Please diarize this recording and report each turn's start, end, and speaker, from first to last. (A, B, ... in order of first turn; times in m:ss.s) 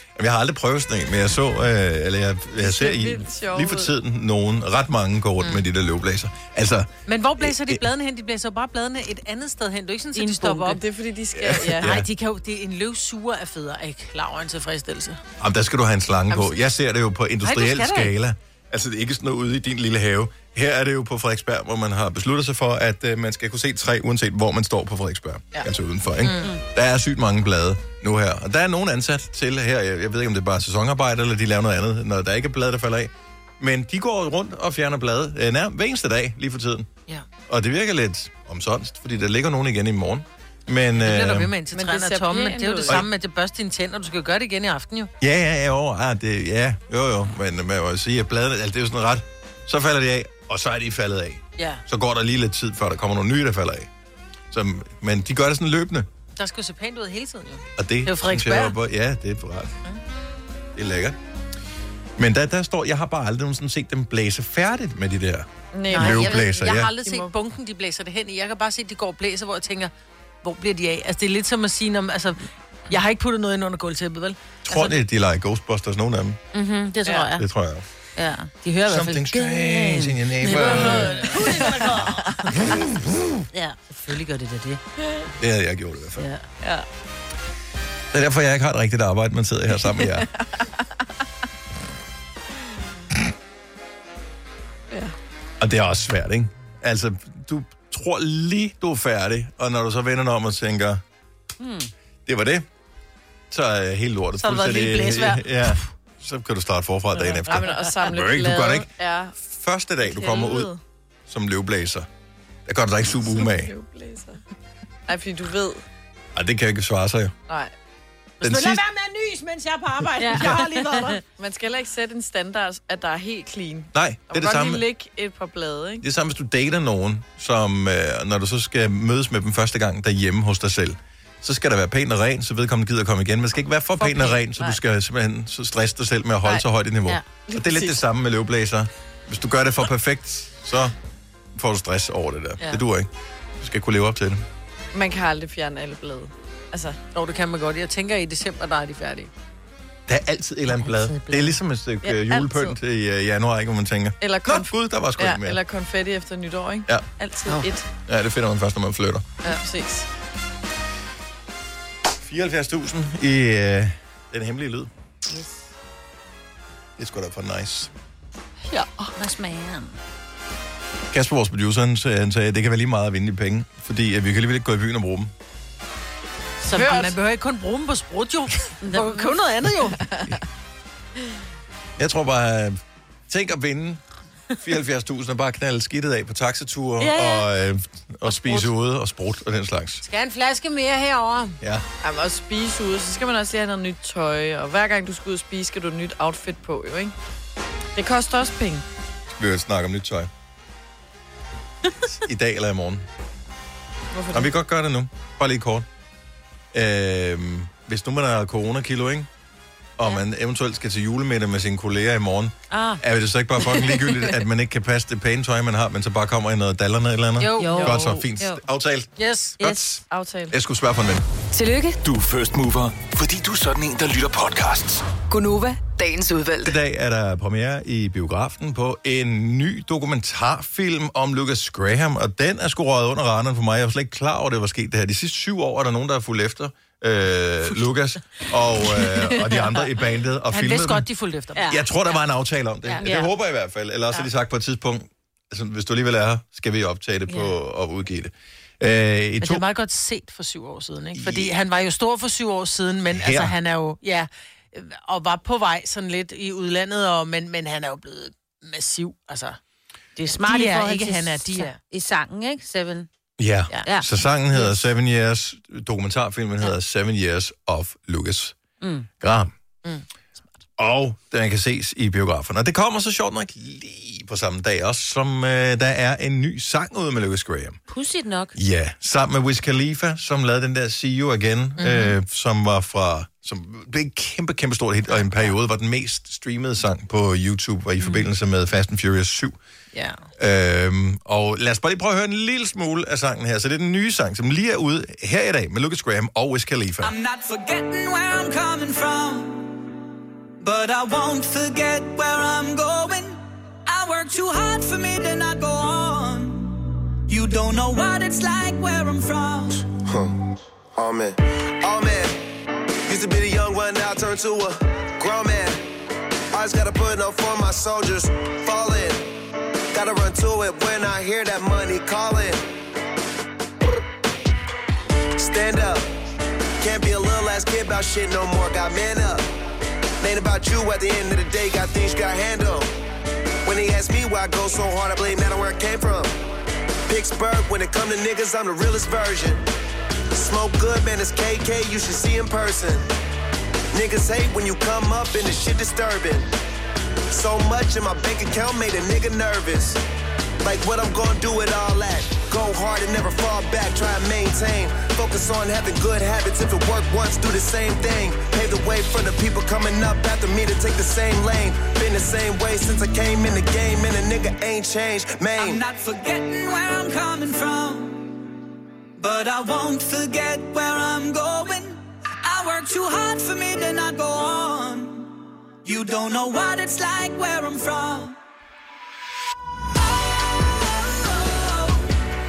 0:00.2-0:07.8 A
0:02.6-0:03.9 B
0:07.1-0:10.8 C
0:10.2-0:10.8 D
0:10.7-0:12.0 B
0:11.4-0:12.1 A
0:11.8-0:15.2 C
0:15.4-0:36.9 A
0:17.4-0:18.2 C
0:26.2-0:26.5 C
0:37.5-0:41.5 A
0:40.9-0:45.1 C
0:41.7-0:43.1 B
0:45.2-0:53.9 A
0:51.6-0:51.8 C
0:54.5-0:56.1 A
0:56.4-0:58.8 C
0:57.8-0:59.8 A
1:00.8-1:01.2 A
1:02.2-1:06.9 A
1:05.7-1:07.3 B
1:05.9-1:09.9 C
1:10.4-1:14.8 C
1:14.7-1:16.4 A
1:16.6-1:17.4 D
1:16.6-1:17.3 C
1:17.4-1:17.8 A
1:18.2-1:18.5 D
1:18.5-1:19.3 C
1:18.8-1:21.2 A
1:19.3-1:22.1 D
1:20.4-1:21.9 C
1:22.7-1:23.3 A
1:23.5-1:24.8 D
1:25.4-1:26.3 A
1:28.1-1:30.3 A
1:35.6-1:41.0 A
1:41.6-1:41.9 D
1:42.3-1:42.7 A
1:43.5-1:50.7 A
1:44.4-1:45.8 C
1:47.2-1:49.3 B
1:51.3-1:52.1 A
1:52.7-1:53.7 A
1:53.3-1:54.4 B
1:55.1-1:55.8 B
1:56.3-1:57.3 A
1:58.4-2:01.2 C
1:58.4-1:58.8 A
2:00.2-2:00.7 B
2:01.4-2:06.0 B
2:03.9-2:04.8 A
2:06.0-2:20.9 A
2:14.0-2:14.8 B
2:17.1-2:18.0 C
2:21.5-2:24.4 A
2:24.9-2:27.0 B
2:27.1-2:29.3 C
2:30.1-2:35.6 A
2:30.8-2:31.6 D
2:32.0-2:32.7 B
2:34.2-2:37.8 B
2:37.2-2:37.6 C
2:38.1-2:39.4 A
2:39.4-2:40.1 B
2:42.2-2:44.9 A
2:45.3-2:45.6 D
2:47.0-2:47.9 A
2:49.2-2:50.0 D
2:51.1-2:55.3 A
2:56.6-3:00.0 C
2:56.7-2:57.2 B
2:58.8-2:59.3 D
3:02.0-3:04.0 A
3:04.6-3:10.0 A
3:07.0-3:07.5 D
3:08.3-3:08.7 C
3:10.0-3:11.6 C
3:12.0-3:17.1 B
3:18.0-3:18.8 B
3:19.4-3:20.3 A
3:22.2-3:23.0 A
3:24.1-3:24.5 B
3:24.3-3:25.8 A
3:26.7-3:29.3 A
3:30.0-3:39.1 A
3:32.7-3:33.0 D
3:37.4-3:38.2 C
3:37.6-3:38.6 D
3:39.2-3:39.7 C
3:39.6-3:41.2 A
3:40.1-3:40.5 B
3:41.5-3:42.0 E
3:42.0-3:45.0 F
3:45.3-3:46.8 E
3:46.6-4:01.1 A
3:59.0-3:59.8 C
4:00.5-4:01.7 C
4:01.5-4:01.8 D
4:01.7-4:09.6 A
4:03.0-4:03.3 D
4:09.4-4:19.6 C
4:11.2-4:11.5 A
4:13.1-4:13.5 A
4:20.2-4:23.1 D
4:20.4-4:21.8 C
4:23.4-4:28.5 A
4:23.8-4:24.1 D
4:28.8-4:29.1 D
4:29.2-4:29.5 A
4:30.8-4:37.8 A
4:37.9-4:38.5 D
4:38.5-4:49.6 A
4:41.8-4:42.2 C
4:48.0-4:48.2 C
4:50.4-4:57.1 A
4:57.0-4:59.8 G
5:00.6-5:09.8 G
5:10.0-5:10.4 H
5:11.0-5:12.4 H
5:13.1-5:15.9 H
5:16.5-5:19.3 H
5:19.9-5:22.7 H
5:25.4-5:26.1 H
5:26.8-5:29.5 H
5:30.2-5:32.9 H
5:33.6-5:36.3 H
5:37.1-5:39.6 H
5:40.3-5:43.1 H
5:43.9-5:46.5 H
5:47.3-5:50.0 H
5:50.6-6:05.8 H
6:05.6-6:08.4 G
6:09.2-6:18.4 G
6:20.7-6:22.0 G